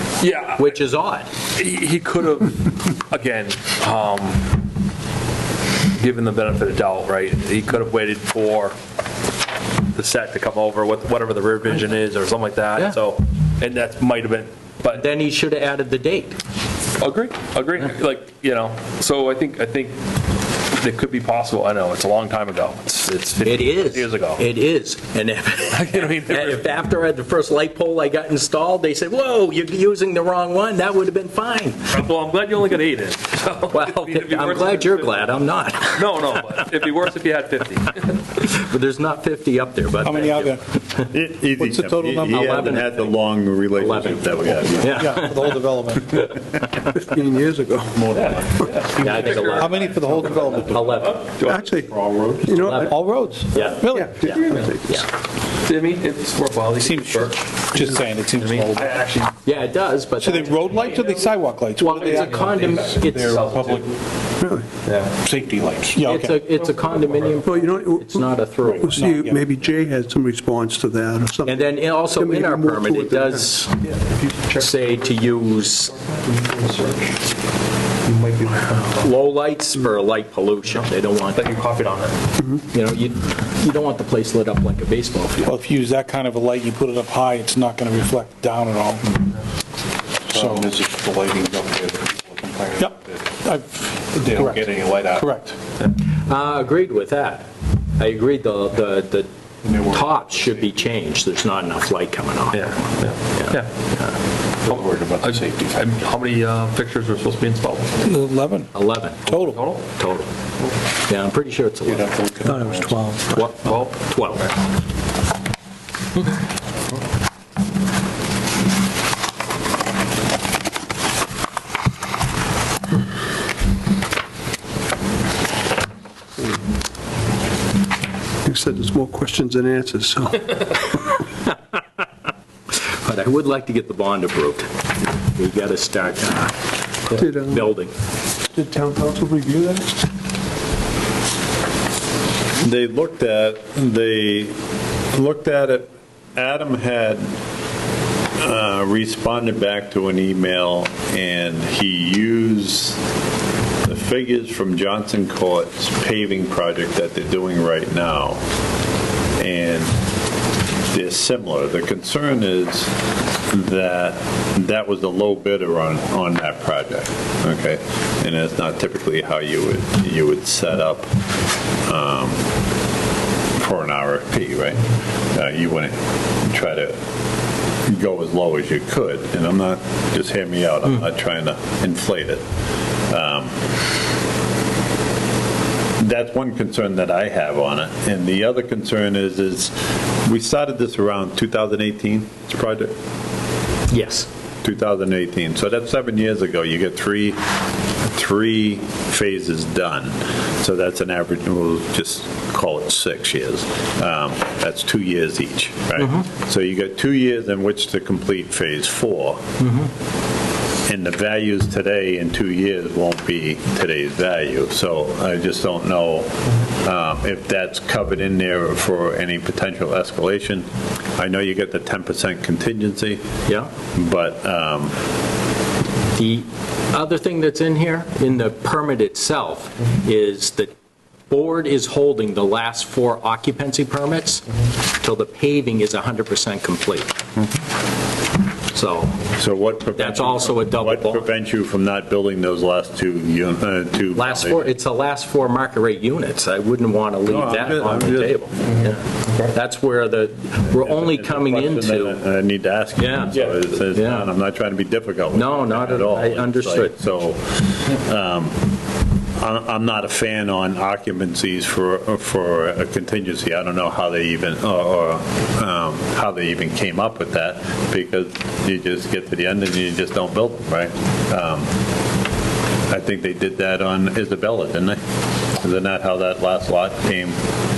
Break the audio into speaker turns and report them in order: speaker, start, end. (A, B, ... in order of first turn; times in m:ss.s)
0:00.2-0:00.8 A
0:00.6-0:01.3 B
0:01.5-0:04.6 A
0:05.9-0:08.8 A
0:09.9-0:15.0 A
0:14.9-0:16.4 B
0:17.0-0:20.0 A
0:20.7-0:24.4 A
0:23.4-0:31.9 B
0:25.7-0:26.7 A
0:31.9-0:35.2 A
0:33.7-0:36.0 B
0:35.9-0:38.2 A
0:38.4-0:41.1 B
0:40.0-0:40.6 C
0:41.1-0:45.2 D
0:41.6-0:42.6 C
0:42.2-0:43.2 B
0:43.8-0:46.2 B
0:44.9-0:46.2 C
0:46.8-0:48.0 E
0:47.9-0:48.7 F
0:48.1-0:51.7 A
0:48.9-0:51.2 B
0:49.4-0:51.1 C
0:51.4-0:51.9 E
0:51.7-0:52.6 F
0:52.4-0:55.0 E
0:52.6-0:55.1 B
0:52.6-0:54.3 C
0:53.5-0:54.8 A
0:55.6-0:57.5 A
0:56.7-0:58.9 C
0:58.3-0:59.4 A
0:59.4-1:00.9 B
1:00.2-1:03.5 C
1:00.8-1:01.2 A
1:01.8-1:03.4 B
1:01.8-1:04.0 A
1:04.8-1:05.1 A
1:05.2-1:06.0 F
1:05.3-1:06.4 C
1:06.0-1:09.4 B
1:06.6-1:07.3 A
1:07.4-1:13.5 E
1:08.6-1:09.3 C
1:11.4-1:13.8 B
1:14.5-1:15.9 B
1:16.0-1:17.2 A
1:18.1-1:19.0 A
1:19.0-1:21.4 B
1:20.7-1:22.1 A
1:22.7-1:25.4 B
1:25.4-1:29.2 C
1:30.3-1:33.3 F
1:30.3-1:30.7 C
1:32.8-1:35.6 C
1:34.1-1:35.4 F
1:36.1-1:44.1 B
1:39.6-1:40.7 F
1:42.5-1:43.9 A
1:44.6-1:48.1 A
1:44.6-1:45.9 F
1:48.0-1:48.7 C
1:48.7-1:50.3 B
1:49.2-1:49.6 C
1:49.2-1:49.8 A
1:51.0-1:52.2 B
1:51.8-1:53.0 F
1:52.4-1:53.4 E
1:53.3-1:54.5 B
1:53.6-1:54.5 A
2:08.4-2:11.1 E
2:12.9-2:16.6 B
2:17.1-2:17.9 B
2:17.2-2:17.7 E
2:18.5-2:20.0 E
2:22.6-2:24.6 D
2:25.1-2:27.3 D
2:28.4-2:33.0 D
2:33.8-2:38.4 D
2:39.4-2:40.0 D
2:40.9-2:42.9 D
2:43.5-2:51.1 D
2:51.8-2:52.4 D
2:53.6-2:57.0 D
2:57.8-3:02.4 D
3:03.1-3:03.7 D
3:06.0-3:09.7 D
3:10.2-3:12.9 D
3:13.9-3:14.3 B
3:14.6-3:17.4 D
3:18.0-3:29.4 D
3:26.0-3:26.2 B
3:29.6-3:29.9 B
3:30.9-3:40.6 D
3:41.2-3:43.2 D
3:43.4-3:43.7 B
3:43.9-3:44.9 D
3:46.1-3:50.7 B
3:51.3-3:54.4 B
3:55.0-3:57.1 B
3:58.7-3:59.2 B
3:59.4-4:04.7 D
4:00.0-4:01.3 B
4:04.1-4:12.2 B
4:07.2-4:08.5 D
4:08.7-4:09.5 A
4:10.8-4:18.6 D
4:13.0-4:14.3 B
4:13.3-4:13.6 A
4:15.3-4:16.9 B
4:19.4-4:31.7 D
4:32.9-4:35.0 D
4:35.6-4:37.4 D